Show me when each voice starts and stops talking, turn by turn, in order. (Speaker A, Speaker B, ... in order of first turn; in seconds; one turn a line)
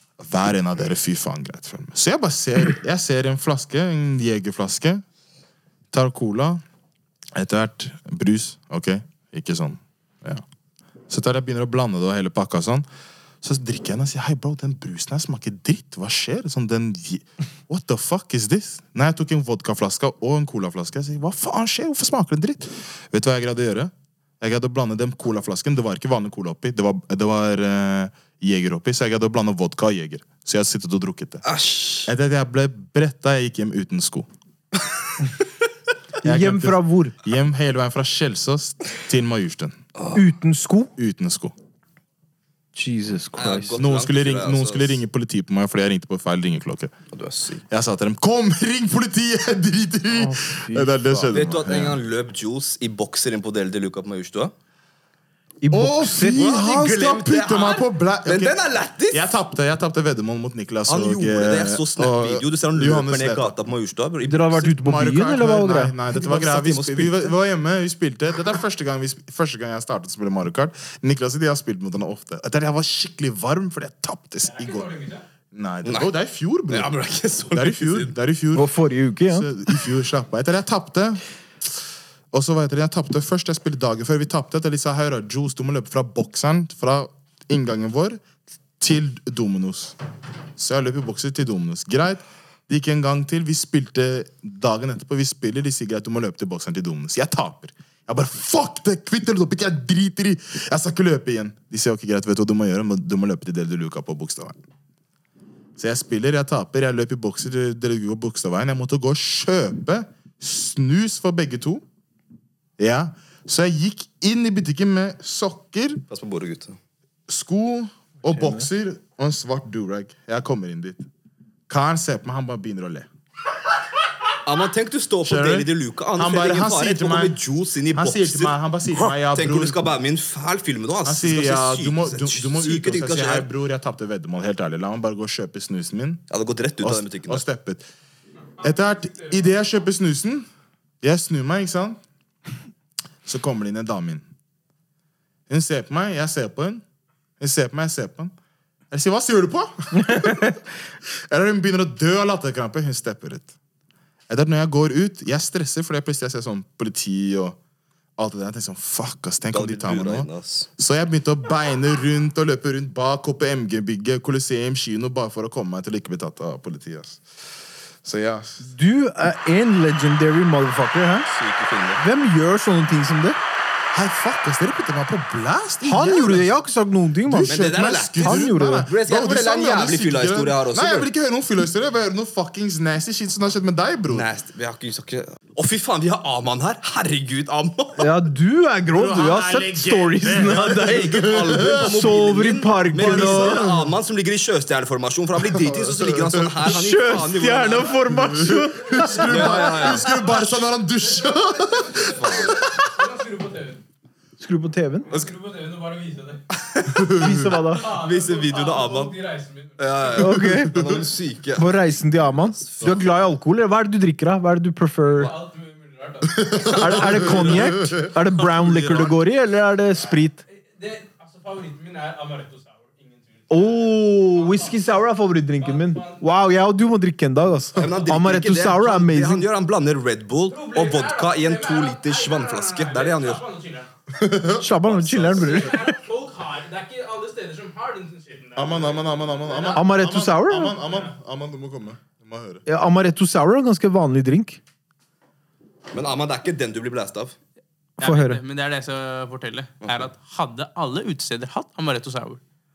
Speaker A: 0.2-5.0
Speaker A: 5.9-6.6
Speaker A: 7.3-10.4
Speaker A: 11.1-12.9
Speaker A: 13.4-31.4
Speaker B: 31.4-32.1
Speaker A: 32.1-34.3
Speaker C: 36.2-37.1
Speaker A: 36.2-39.8
Speaker C: 40.1-40.9
Speaker A: 41.0-41.5
Speaker C: 42.8-43.8
Speaker B: 43.4-45.0
Speaker A: 43.8-46.9
Speaker B: 47.1-47.6
Speaker A: 47.7-52.0
Speaker C: 50.1-51.4
Speaker B: 51.3-54.5
Speaker C: 55.6-56.4
Speaker A: 55.7-58.6
Speaker B: 56.3-59.3
Speaker A: 59.1-63.5
Speaker B: 60.9-64.8
Speaker C: 64.3-66.0
Speaker A: 64.8-74.9
Speaker B: 66.1-67.3
Speaker D: 74.5-75.2
Speaker A: 75.5-77.0
Speaker B: 75.8-76.1
Speaker B: 76.7-78.1
Speaker A: 77.5-78.7
Speaker C: 78.5-79.5
Speaker A: 79.3-81.7
Speaker A: 82.3-88.2
Speaker A: 88.8-90.0
Speaker A: 90.6-104.6
Speaker A: 105.8-111.8
Speaker A: 112.8-116.0
Speaker B: 116.1-116.8
Speaker A: 117.3-121.1
Speaker C: 118.3-118.6
Speaker A: 121.7-123.1
Speaker B: 124.5-133.5
Speaker A: 125.2-127.4
Speaker A: 127.9-129.8
Speaker A: 131.1-136.2
Speaker B: 136.3-137.4
Speaker A: 136.8-137.8
Speaker A: 138.6-140.5
Speaker A: 141.0-142.0
Speaker A: 143.2-144.2
Speaker A: 145.5-146.8
Speaker A: 147.4-148.3
Speaker A: 148.9-150.6
Speaker C: 150.0-150.6
Speaker A: 151.3-153.5
Speaker A: 154.3-157.6
Speaker A: 158.2-167.2
Speaker B: 159.5-160.7
Speaker A: 168.0-168.7
Speaker C: 168.6-171.3
Speaker B: 171.3-172.0
Speaker C: 172.0-173.4
Speaker A: 173.9-176.5
Speaker C: 175.8-177.7
Speaker A: 177.3-184.3
Speaker B: 177.5-181.1
Speaker C: 178.2-178.9
Speaker B: 184.1-188.1
Speaker C: 188.0-193.9
Speaker A: 189.0-192.0
Speaker B: 190.2-198.0
Speaker A: 193.0-193.9
Speaker A: 195.5-196.6
Speaker C: 196.6-199.8
Speaker A: 198.1-202.7
Speaker D: 198.8-203.8
Speaker B: 199.1-200.6
Speaker B: 202.2-202.6
Speaker C: 204.4-205.1
Speaker D: 205.1-206.4
Speaker A: 206.8-207.6
Speaker D: 207.0-209.8
Speaker C: 207.1-207.9
Speaker B: 207.8-209.2
Speaker B: 209.8-213.1
Speaker C: 210.2-211.0
Speaker A: 210.8-211.0
Speaker C: 211.6-215.3
Speaker D: 215.1-217.0
Speaker A: 216.3-218.1
Speaker B: 216.6-219.2
Speaker C: 216.8-220.4
Speaker D: 220.5-224.8
Speaker C: 223.5-229.5
Speaker D: 225.6-226.3
Speaker B: 227.8-233.4
Speaker D: 230.5-233.9
Speaker A: 234.1-235.5
Speaker C: 234.6-235.9
Speaker B: 234.9-235.8
Speaker D: 235.3-239.9
Speaker A: 238.6-242.6
Speaker C: 239.8-240.8
Speaker D: 240.8-241.1
Speaker C: 242.7-244.6
Speaker B: 245.9-247.4
Speaker C: 248.0-248.4
Speaker D: 248.0-252.4
Speaker B: 249.8-250.1